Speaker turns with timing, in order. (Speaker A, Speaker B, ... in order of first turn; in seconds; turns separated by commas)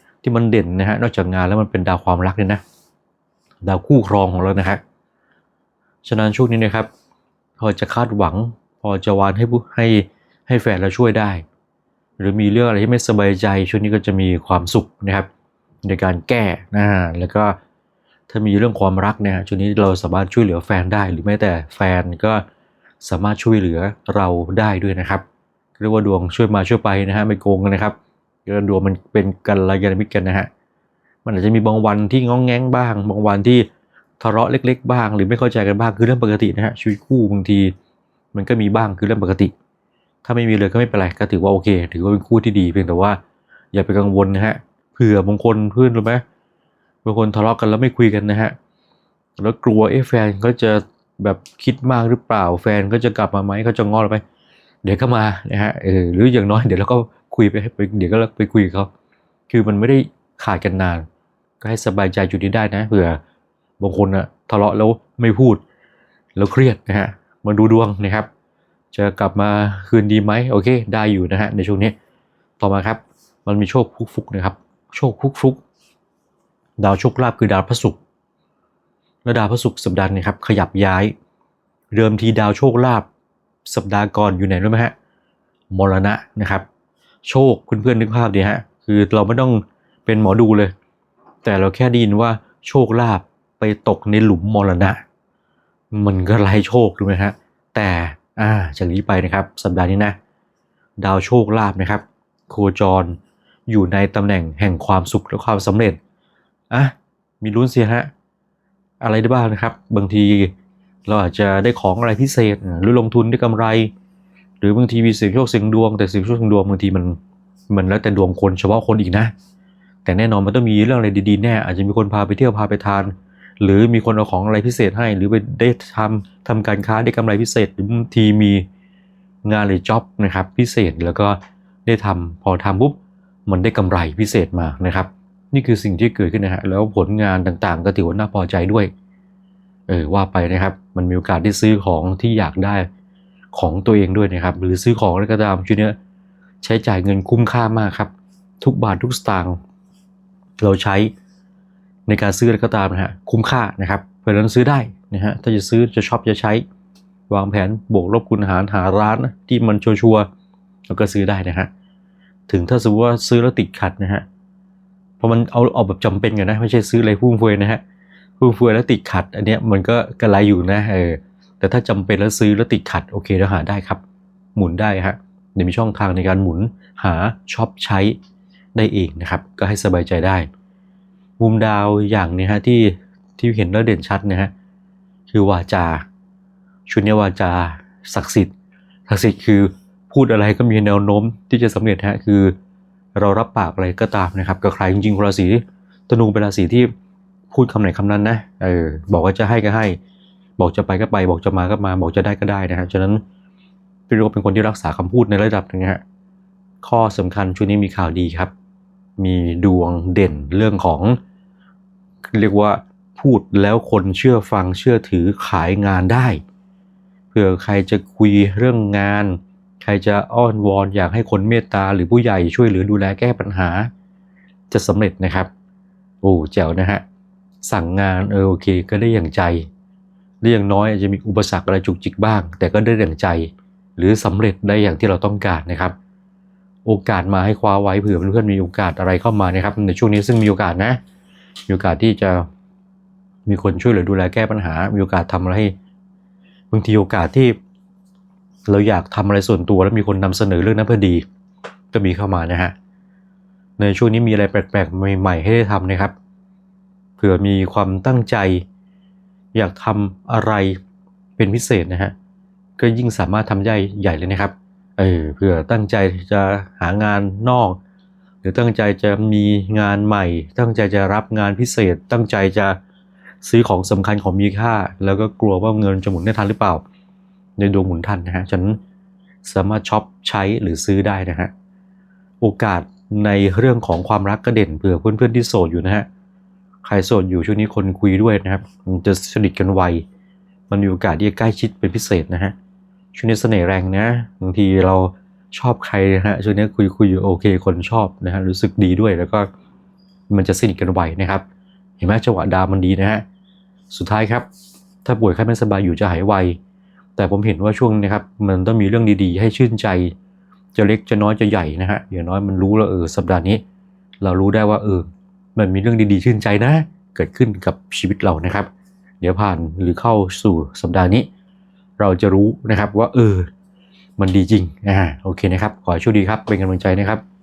Speaker A: 0.2-2.6, Speaker A: 3.6-4.8, Speaker A: 6.0-6.9, Speaker A: 7.6-11.4, Speaker A: 12.2-15.3, Speaker A: 15.8-17.6, Speaker A: 18.3-22.4, Speaker A: 23.0-25.2, Speaker A: 25.8-30.5, Speaker A: 31.2-33.7, Speaker A: 34.2-37.7, Speaker A: 38.3-39.5, Speaker A: 40.2-43.2, Speaker A: 43.7-46.2, Speaker A: 47.0-48.5, Speaker A: 49.4-54.2, Speaker A: 54.8-58.9, Speaker A: 59.5-61.0, Speaker A: 61.6-63.2, Speaker A: 63.8-65.6, Speaker A: 66.3-68.3, Speaker A: 68.9-71.9, Speaker A: 72.6-75.6, Speaker A: 76.8-78.0, Speaker A: 79.2-81.1, Speaker A: 81.9-83.0, Speaker A: 83.6-84.9, Speaker A: 85.7-86.6, Speaker A: 87.2-90.7, Speaker A: 91.4-95.0, Speaker A: 95.9-100.2, Speaker A: 101.0-103.2, Speaker A: 103.7-106.0, Speaker A: 106.7-108.1, Speaker A: 109.0-110.5, Speaker A: 111.0-113.9, Speaker A: 114.6-117.2, Speaker A: 117.7-119.3, Speaker A: 120.0-128.7, Speaker A: 129.4-138.9, Speaker A: 139.9-142.9, Speaker A: 143.5-145.9, Speaker A: 146.6-149.6, Speaker A: 150.6-151.1, Speaker A: 152.1-156.6, Speaker A: 157.3-160.3, Speaker A: 160.9-161.7, Speaker A: 162.5-164.2, Speaker A: 165.2-167.8, Speaker A: 168.4-174.0, Speaker A: 174.5-178.2, Speaker A: 178.7-180.5, Speaker A: 181.4-184.5, Speaker A: 185.3-186.0, Speaker A: 186.9-188.5, Speaker A: 189.1-192.5, Speaker A: 193.1-196.9, Speaker A: 197.5-200.0, Speaker A: 200.6-203.2, Speaker A: 204.1-206.0, Speaker A: 206.8-208.5, Speaker A: 209.2-211.2, Speaker A: 212.3-216.4, Speaker A: 217.3-223.9, Speaker A: 224.7-225.5, Speaker A: 226.2-227.0, Speaker A: 227.6-229.7, Speaker A: 230.4-235.9, Speaker A: 236.8-241.0, Speaker A: 241.7-242.5, Speaker A: 243.4-245.7, Speaker A: 246.7-247.6, Speaker A: 248.7-251.2, Speaker A: 251.9-252.7, Speaker A: 253.8-256.1, Speaker A: 257.2-258.6, Speaker A: 259.5-260.8, Speaker A: 261.4-262.1, Speaker A: 262.8-267.8, Speaker A: 268.4-272.8, Speaker A: 273.4-276.8, Speaker A: 277.6-278.8, Speaker A: 279.4-281.5, Speaker A: 282.4-286.1, Speaker A: 286.8-290.0, Speaker A: 290.7-292.5, Speaker A: 293.1-299.5, Speaker A: 300.3-301.4, Speaker A: 302.0-303.2, Speaker A: 303.9-304.5, Speaker A: 305.0-306.6, Speaker A: 307.1-310.1, Speaker A: 310.7-313.6, Speaker A: 314.2-318.7, Speaker A: 319.2-321.3, Speaker A: 322.0-323.5, Speaker A: 324.2-327.2